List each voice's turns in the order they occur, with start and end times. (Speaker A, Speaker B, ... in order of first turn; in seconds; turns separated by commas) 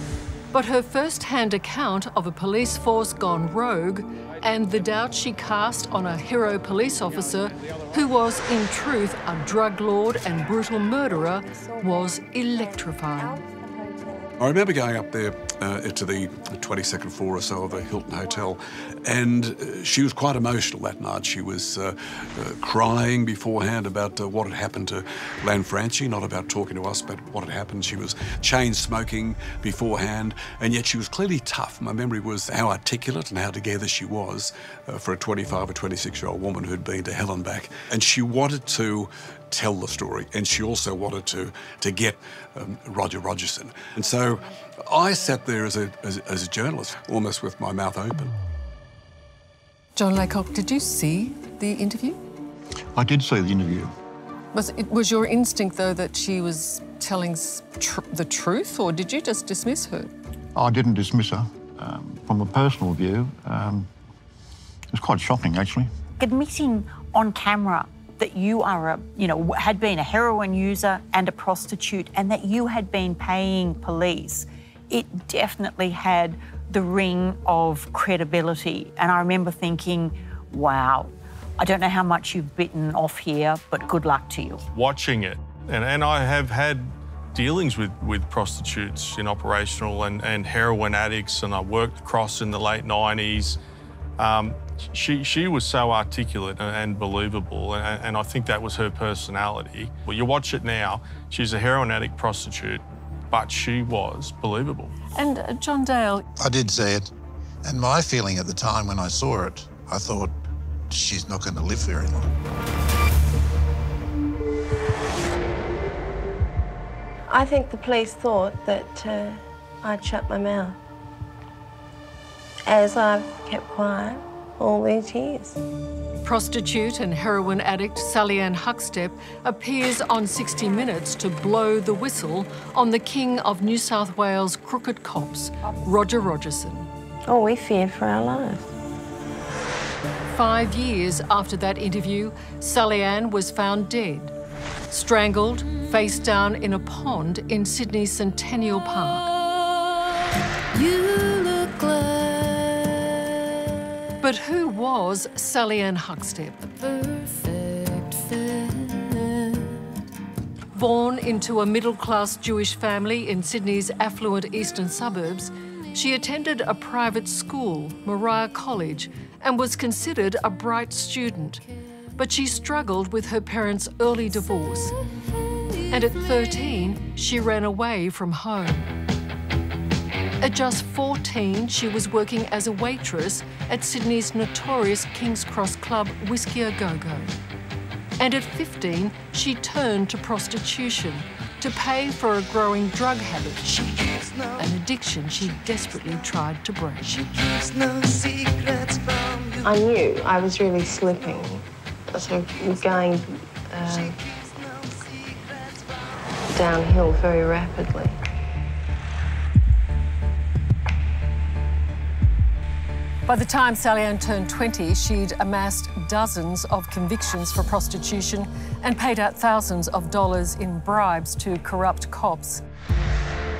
Speaker A: 0.5-13.4, Speaker B: 11.5-14.3, Speaker C: 14.4-48.4, Speaker A: 50.0-52.2, Speaker D: 52.9-53.9, Speaker A: 54.5-60.1, Speaker D: 60.5-63.9, Speaker D: 64.9-65.9, Speaker E: 66.2-84.6, Speaker F: 84.7-93.6, Speaker F: 94.2-105.0, Speaker A: 105.2-106.2, Speaker G: 106.4-107.1, Speaker G: 107.6-110.3, Speaker G: 110.9-112.3, Speaker B: 117.3-120.8, Speaker B: 122.7-125.6, Speaker A: 126.2-136.9, Speaker B: 137.3-138.7, Speaker A: 140.3-144.3, Speaker A: 144.9-149.3, Speaker A: 154.2-156.7, Speaker A: 160.7-171.6, Speaker A: 172.2-174.9, Speaker A: 175.9-178.9, Speaker A: 180.4-187.3, Speaker A: 188.2-193.9, Speaker A: 194.5-197.2, Speaker B: 199.6-204.2, Speaker B: 206.5-208.2, Speaker A: 213.3-222.6